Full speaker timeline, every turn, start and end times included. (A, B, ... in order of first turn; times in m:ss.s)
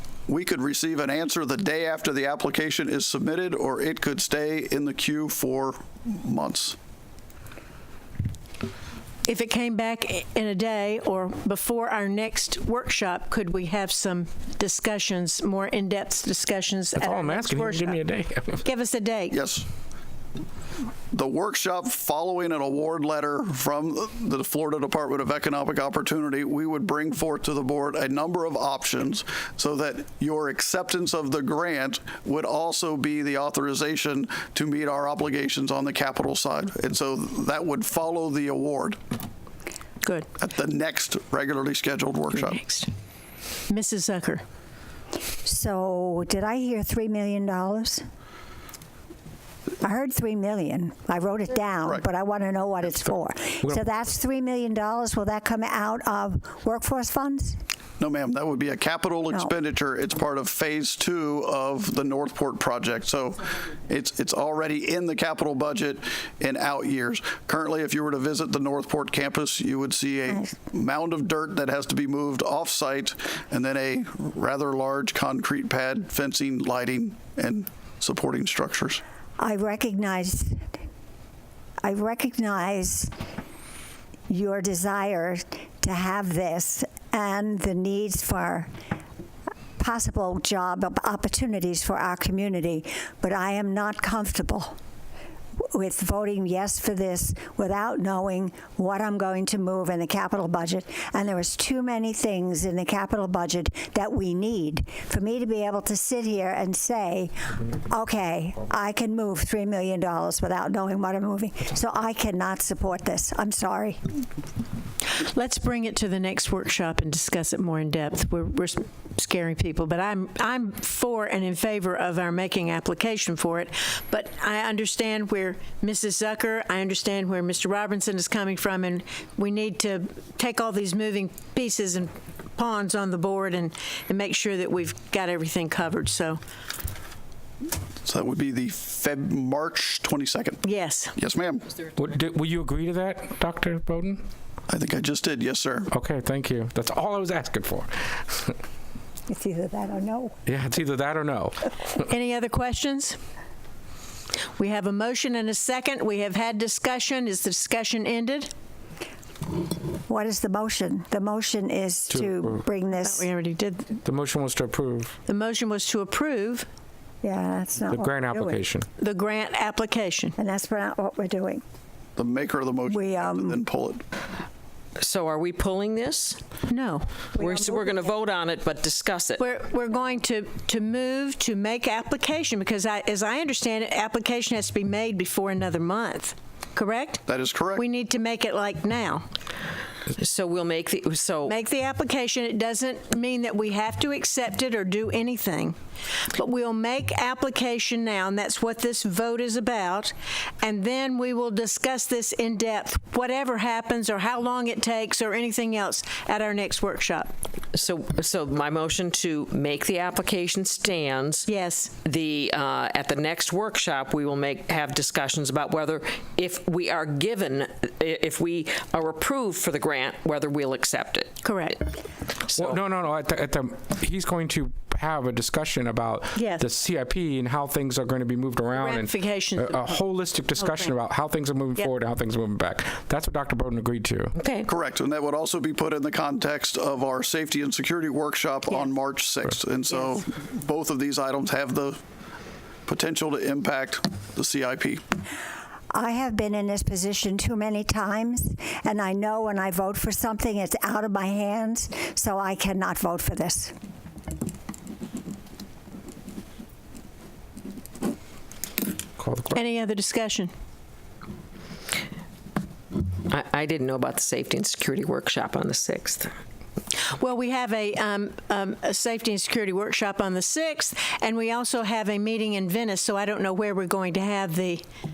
0:00.3-0:06.8 A
0:09.3-0:18.0 B
0:17.0-0:18.6 C
0:18.6-0:19.3 B
0:19.3-0:19.7 A
0:21.1-0:39.0 A
0:40.4-0:42.6 A
0:42.3-0:42.9 B
0:43.7-0:44.4 B
0:45.4-0:48.0 D
0:49.8-0:57.6 D
0:58.0-1:19.0 A
1:19.4-1:20.6 D
1:21.8-1:23.1 D
1:24.3-1:28.7 D
1:29.8-1:34.7 D
1:35.6-1:54.2 D
1:55.1-2:16.4 B
2:18.0-2:20.6 A
2:20.6-2:21.1 B
2:21.2-2:21.6 A
2:22.0-2:24.2 C
2:24.7-2:25.9 A
2:25.9-2:28.5 C
2:29.3-2:30.4 D
2:30.4-2:31.7 C
2:32.0-2:33.2 B
2:34.6-2:38.5 B
2:40.1-2:43.3 D
2:42.1-2:42.6 C
2:43.0-2:44.0 B
2:44.0-2:45.1 C
2:45.2-2:46.7 B
2:47.2-2:48.6 D
2:47.9-2:48.9 C
2:49.0-2:50.3 B
2:50.4-2:51.6 D
2:52.2-2:54.0 A
2:52.9-2:53.6 D
2:55.0-2:56.4 E
2:56.7-2:57.3 B
2:57.3-2:59.4 E
2:57.4-2:57.9 D
2:59.4-3:07.2 B
3:07.3-3:07.8 A
3:07.7-3:09.2 B
3:10.2-3:11.5 E
3:11.4-3:27.3 B
3:27.7-3:41.8 E
3:31.5-3:32.0 B
3:41.4-3:41.8 B
3:42.4-3:42.8 E
3:42.5-3:54.3 C
3:46.3-3:46.7 B
3:48.7-3:50.0 B
3:50.5-3:50.9 B
3:54.4-3:54.7 E
3:54.7-4:02.0 A
4:02.9-4:05.0 A
4:05.9-4:13.7 D
4:19.2-4:19.6 C
4:19.5-4:20.5 B
4:23.3-4:26.3 E
4:27.0-4:34.8 B